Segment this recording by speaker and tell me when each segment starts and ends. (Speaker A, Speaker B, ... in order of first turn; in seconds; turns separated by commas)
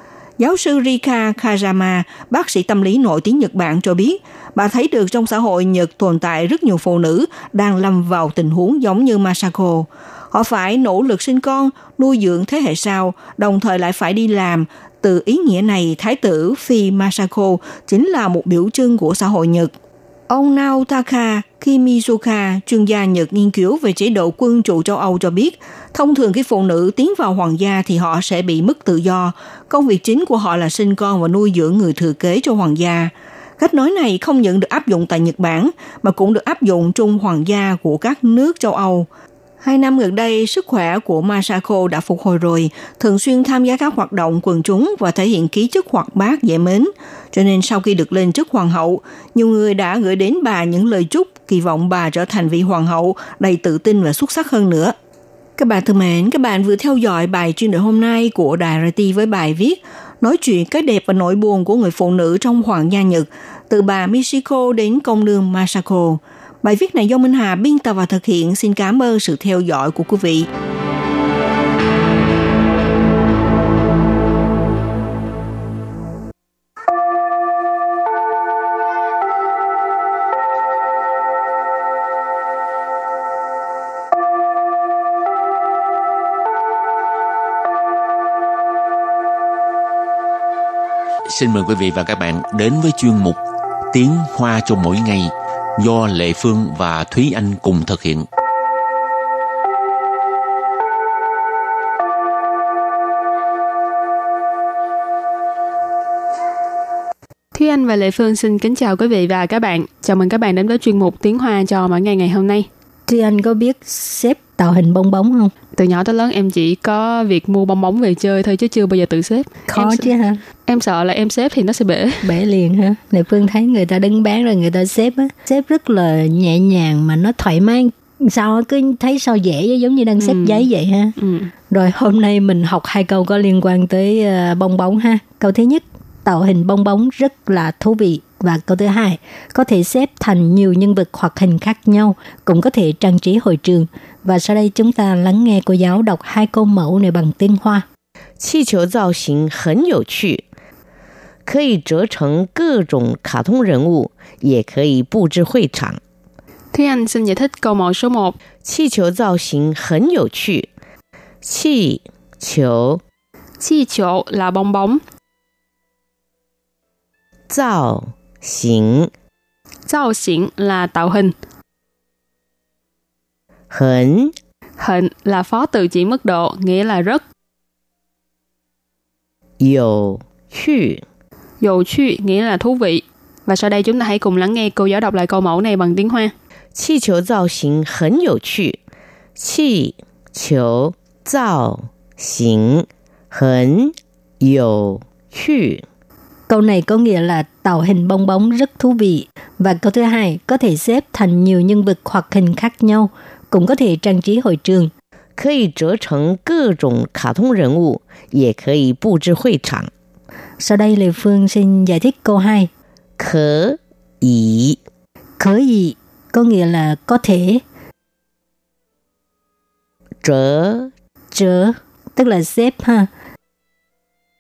Speaker A: 0.4-19.7, Speaker A: 20.3-39.1, Speaker A: 39.6-55.0, Speaker A: 55.6-70.5, Speaker B: 91.3-93.4, Speaker B: 93.9-98.3, Speaker C: 107.5-112.7, Speaker D: 113.1-115.5, Speaker C: 115.8-120.1, Speaker D: 119.7-120.4, Speaker C: 120.7-122.3, Speaker D: 122.2-131.2, Speaker C: 130.2-130.7, Speaker C: 131.2-131.5, Speaker D: 131.7-147.8, Speaker E: 148.4-150.4, Speaker E: 151.5-156.0, Speaker C: 156.7-158.4, Speaker E: 158.6-160.7, Speaker E: 161.4-163.0, Speaker C: 163.6-165.0, Speaker E: 167.5-169.1, Speaker C: 169.9-171.3, Speaker E: 173.7-174.3, Speaker C: 174.8-177.2, Speaker E: 179.6-181.0, Speaker C: 181.6-186.3, Speaker E: 186.8-188.8, Speaker E: 189.4-195.8, Speaker D: 196.5-204.9, Speaker E: 205.4-209.9, Speaker D: 210.6-212.7, Speaker E: 213.2-214.8, Speaker D: 215.4-217.6, Speaker E: 220.2-220.9, Speaker D: 221.3-223.1